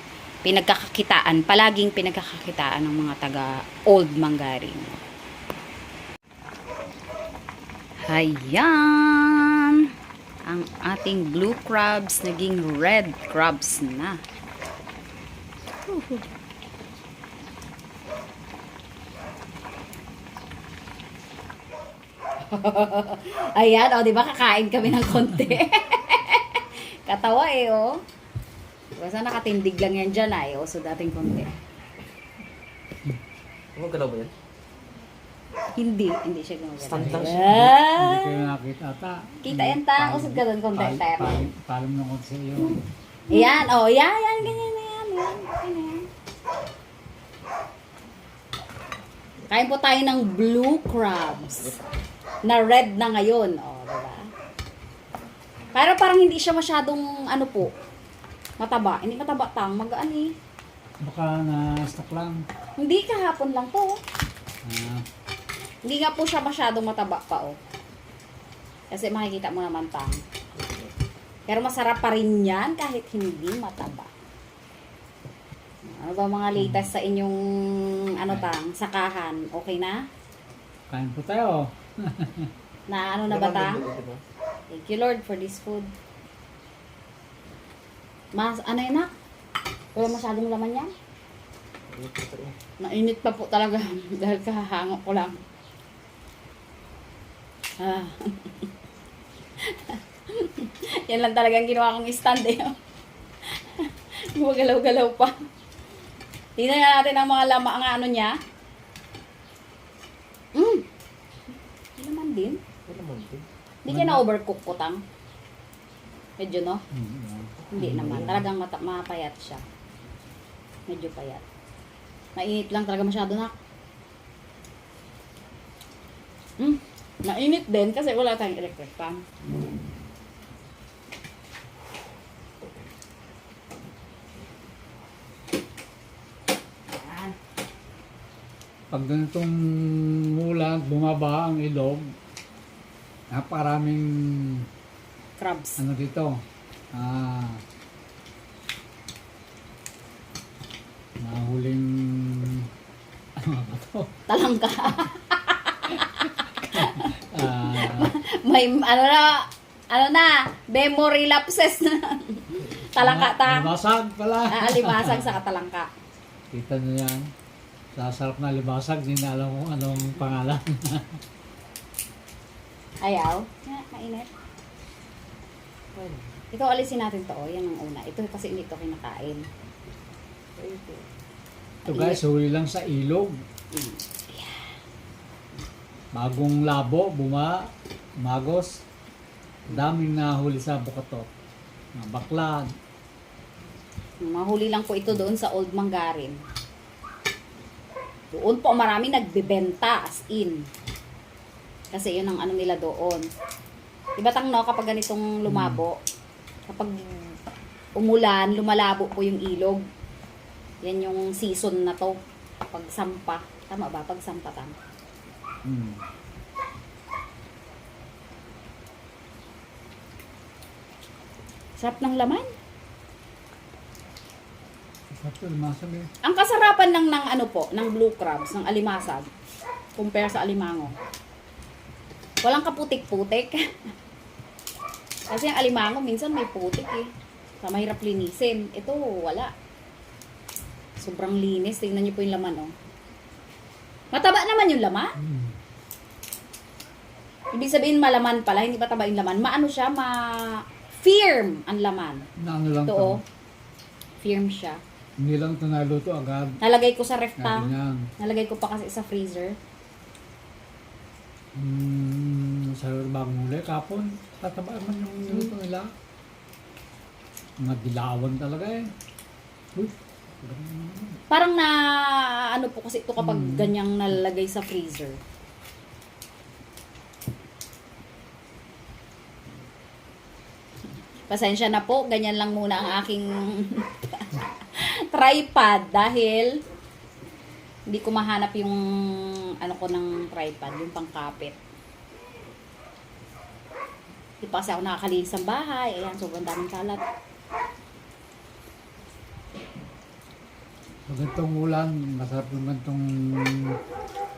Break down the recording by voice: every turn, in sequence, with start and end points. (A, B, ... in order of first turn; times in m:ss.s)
0:00.4-0:05.0 A
0:08.1-0:09.9 A
0:10.5-0:14.2 A
0:15.9-0:16.2 A
0:22.5-0:27.9 A
0:24.8-0:25.6 B
0:29.0-0:31.5 A
0:33.7-0:34.3 C
0:35.8-0:38.3 A
0:36.8-0:37.5 C
0:36.9-0:42.8 B
0:39.4-0:41.3 A
0:43.3-0:46.0 A
0:49.5-0:51.8 A
0:52.4-0:54.3 A
0:55.8-0:57.7 A
0:58.6-1:00.3 A
1:01.0-1:02.4 B
1:02.8-1:04.0 A
1:04.6-1:05.0 B
1:05.8-1:07.6 A
1:08.9-1:10.2 A
1:11.5-1:14.1 A
1:15.8-1:20.0 A
1:16.6-1:16.9 B
1:20.9-1:22.5 B
1:22.9-1:23.8 A
1:23.3-1:24.2 C
1:24.7-1:25.9 A
1:28.4-1:29.1 A
1:29.9-1:30.9 A
1:31.9-1:32.6 C
1:32.8-1:35.4 A
1:37.8-1:38.7 A
1:39.6-1:42.7 A
1:43.5-1:45.3 A
1:46.6-1:48.4 A
1:50.5-1:50.8 A
1:52.0-1:52.6 A
1:52.8-1:53.4 C
1:53.8-1:55.0 A
1:53.9-1:54.2 B
1:56.4-1:56.8 A
1:56.9-1:58.4 B
1:57.7-1:59.6 A
2:00.9-2:01.4 A
2:02.4-2:03.5 A
2:06.6-2:09.3 A
2:18.9-2:22.1 B
2:23.3-2:24.7 B
2:25.4-2:25.8 A
2:25.8-2:26.4 B
2:26.9-2:27.6 B
2:31.2-2:32.7 B
2:33.4-2:34.1 B
2:34.3-2:43.7 A
2:36.7-2:38.1 B
2:43.0-2:45.4 B
2:44.5-2:45.9 A
2:46.5-2:47.2 B
2:47.9-2:51.2 B
2:53.0-2:54.3 A
2:55.9-2:56.3 C
2:56.5-2:59.4 A
3:00.6-3:01.1 C
3:01.8-3:03.4 B
3:01.9-3:02.2 A
3:03.7-3:04.7 A
3:06.1-3:07.6 B
3:08.2-3:08.8 B
3:09.7-3:11.3 B
3:12.0-3:12.7 B
3:14.2-3:16.4 A
3:18.3-3:20.6 A
3:21.9-3:23.2 A
3:24.2-3:26.0 A
3:25.5-3:25.8 B
3:26.7-3:27.0 A
3:28.0-3:29.8 A
3:30.8-3:32.2 A
3:32.7-3:34.7 A
3:35.6-3:36.0 B
3:41.8-3:42.5 A
3:45.2-3:46.1 B
3:46.2-3:49.3 A
3:50.0-3:50.9 A
3:52.4-3:53.6 A
3:55.3-3:57.1 A
3:57.6-3:59.5 A
4:01.0-4:02.7 A
4:04.1-4:05.1 A
4:05.2-4:05.6 B
4:07.5-4:12.2 A
4:12.4-4:13.2 B
4:12.8-4:13.2 A
4:14.2-4:14.8 A
4:15.2-4:16.6 B
4:16.6-4:19.6 A
4:17.4-4:18.1 B
4:21.6-4:25.9 B
4:25.1-4:25.5 A
4:27.6-4:28.9 B
4:29.8-4:31.2 B
4:31.3-4:35.2 A
4:33.2-4:33.7 B
4:41.3-4:46.5 A
4:47.9-4:51.6 A
4:54.4-4:57.0 A
5:01.1-5:03.8 B